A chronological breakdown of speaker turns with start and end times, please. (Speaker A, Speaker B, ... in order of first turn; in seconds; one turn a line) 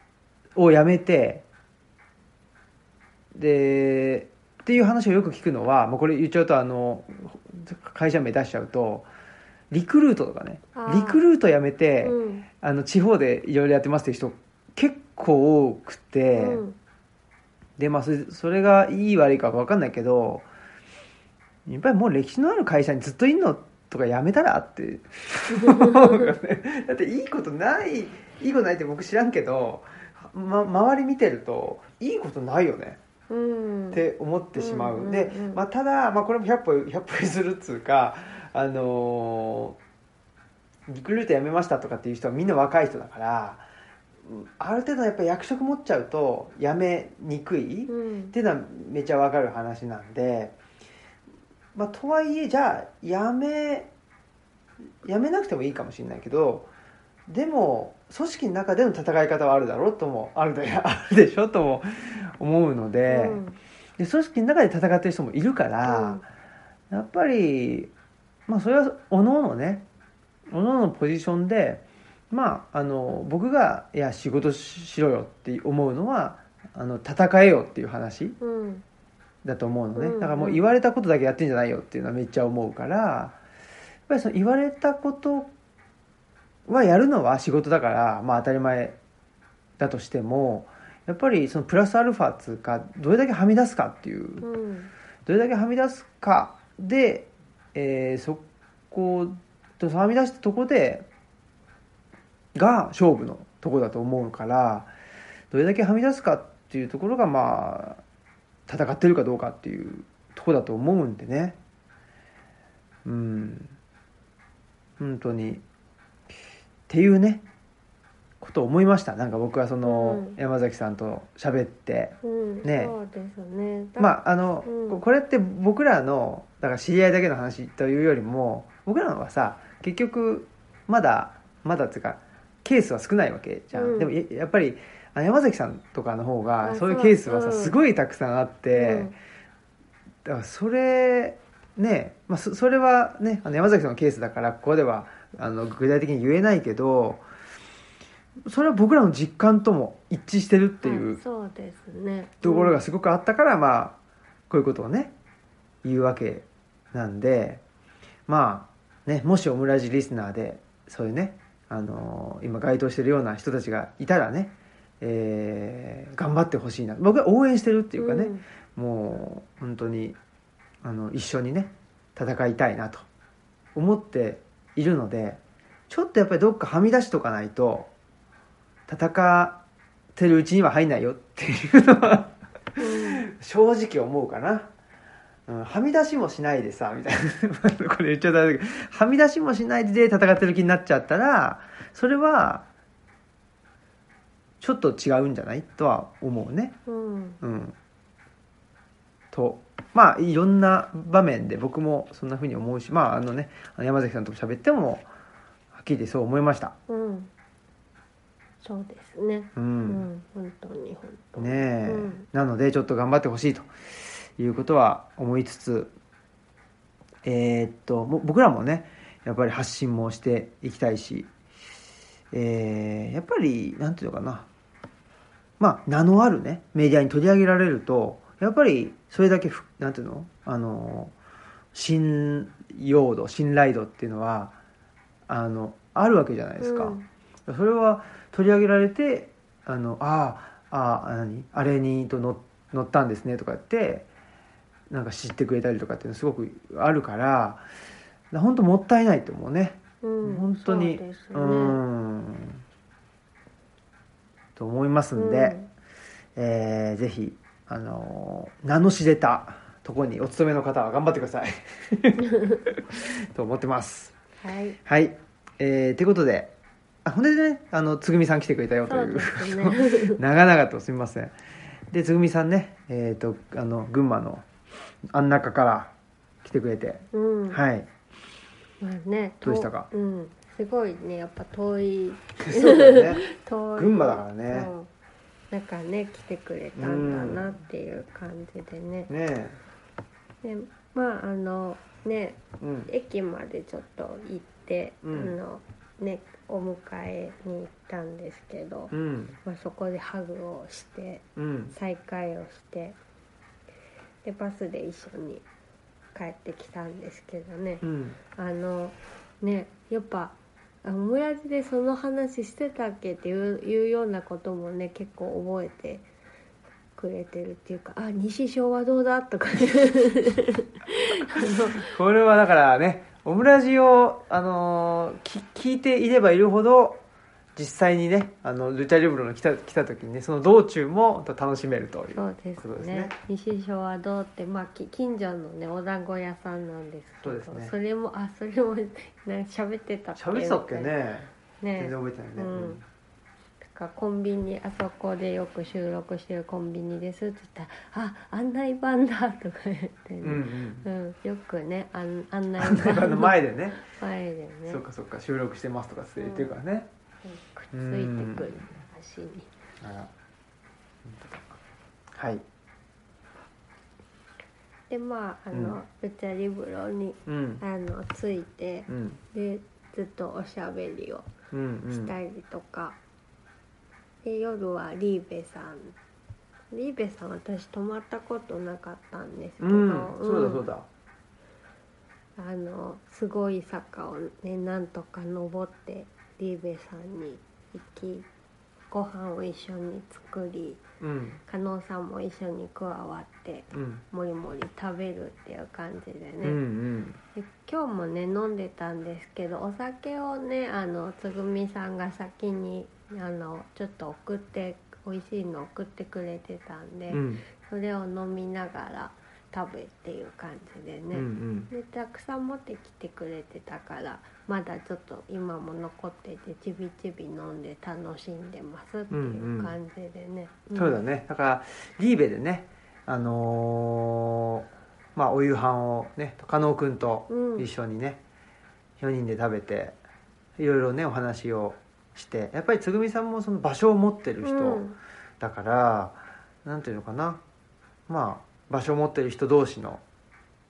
Speaker A: 0.6-1.4
Speaker A: 3.3-9.1
Speaker A: 9.7-16.6
Speaker B: 10.7-11.2
Speaker B: 12.0-12.4
Speaker B: 16.4-16.8
Speaker A: 17.8-20.5
Speaker A: 21.6-33.0
Speaker B: 25.5-26.3
Speaker B: 33.3-34.0
Speaker A: 33.9-39.8
Speaker B: 34.5-35.6
Speaker A: 40.9-43.6
Speaker A: 44.2-50.5
Speaker B: 47.9-48.4
Speaker A: 51.7-53.9
Speaker A: 55.0-56.7
Speaker A: 57.3-63.4
Speaker B: 63.1-63.6
Speaker A: 64.0-66.2
Speaker B: 65.9-66.2
Speaker A: 66.9-67.9
Speaker A: 68.5-69.8
Speaker A: 70.5-78.4
Speaker B: 78.4-78.8
Speaker A: 79.4-83.4
Speaker B: 80.0-80.6
Speaker A: 84.1-85.5
Speaker A: 86.7-89.0
Speaker A: 89.8-94.5
Speaker B: 94.4-94.9
Speaker A: 95.2-101.1
Speaker A: 102.5-104.9
Speaker A: 105.5-108.0
Speaker A: 108.7-111.6
Speaker A: 113.0-113.7
Speaker A: 115.0-115.6
Speaker A: 116.9-117.4
Speaker A: 118.4-122.9
Speaker B: 119.8-120.4
Speaker B: 122.2-125.0
Speaker A: 124.0-139.1
Speaker B: 133.7-134.1
Speaker B: 136.6-137.8
Speaker B: 138.7-139.1
Speaker A: 140.2-147.2
Speaker A: 148.4-151.2
Speaker B: 150.8-152.8
Speaker A: 152.4-154.0
Speaker A: 154.5-155.1
Speaker A: 155.8-157.6
Speaker A: 158.3-170.2
Speaker B: 168.0-168.4
Speaker A: 170.8-173.1
Speaker A: 173.7-177.9
Speaker A: 178.9-179.6
Speaker A: 180.1-184.7
Speaker B: 182.8-183.2
Speaker A: 185.5-192.7
Speaker A: 194.6-196.8
Speaker B: 196.9-197.4
Speaker A: 197.4-197.8
Speaker A: 199.3-205.1
Speaker A: 205.7-206.7
Speaker B: 206.9-207.3
Speaker B: 208.6-212.2
Speaker A: 209.6-210.1
Speaker A: 211.4-213.7
Speaker A: 214.4-215.9
Speaker A: 217.2-221.3
Speaker A: 222.3-224.5
Speaker A: 225.6-231.1
Speaker A: 231.7-234.5
Speaker A: 235.3-244.1
Speaker B: 236.6-237.1
Speaker A: 244.9-247.6
Speaker A: 248.3-252.6
Speaker B: 250.0-251.8
Speaker A: 254.6-255.6
Speaker B: 255.1-255.7
Speaker A: 256.4-264.1
Speaker B: 262.3-262.6
Speaker B: 264.4-264.8
Speaker A: 264.9-266.5
Speaker A: 267.0-271.4
Speaker B: 268.9-270.2
Speaker A: 271.9-274.4
Speaker A: 275.1-275.9
Speaker A: 276.4-277.9
Speaker B: 277.1-277.6
Speaker B: 278.8-284.9
Speaker A: 279.4-279.9
Speaker A: 282.4-283.2
Speaker A: 283.8-284.7
Speaker B: 285.5-289.1
Speaker A: 286.8-287.5
Speaker A: 289.1-289.6
Speaker B: 290.4-303.0
Speaker A: 292.6-292.9
Speaker A: 295.0-295.4
Speaker A: 298.9-299.4
Speaker A: 301.4-301.7
Speaker B: 304.2-305.4
Speaker B: 306.1-316.1
Speaker A: 307.8-308.2
Speaker B: 317.0-321.9
Speaker A: 321.8-327.0
Speaker A: 327.6-333.1
Speaker B: 332.1-340.9
Speaker A: 337.2-337.7
Speaker A: 340.1-342.8
Speaker B: 341.6-342.8
Speaker B: 343.6-354.8
Speaker A: 350.2-350.9
Speaker A: 352.6-353.8
Speaker A: 354.7-356.9
Speaker B: 356.1-356.6
Speaker B: 357.2-359.5
Speaker A: 357.7-358.6
Speaker A: 359.8-360.1
Speaker A: 361.0-361.6
Speaker A: 362.1-362.4
Speaker B: 364.9-371.2
Speaker A: 365.5-365.8
Speaker A: 367.2-367.6
Speaker A: 368.9-369.2
Speaker A: 371.5-372.1
Speaker B: 371.9-373.0
Speaker B: 374.2-375.9
Speaker B: 376.7-380.6
Speaker A: 379.6-380.9
Speaker B: 382.4-388.3
Speaker B: 388.9-390.8
Speaker A: 391.0-391.4
Speaker B: 391.5-396.6
Speaker A: 393.7-394.0
Speaker A: 396.4-397.2
Speaker B: 397.4-421.0
Speaker A: 407.1-407.4
Speaker A: 411.1-411.7
Speaker A: 419.1-419.8
Speaker A: 420.7-428.2
Speaker B: 427.3-427.6
Speaker A: 429.0-429.9
Speaker A: 430.6-434.8
Speaker B: 434.4-435.0
Speaker A: 435.4-437.4
Speaker A: 438.1-440.0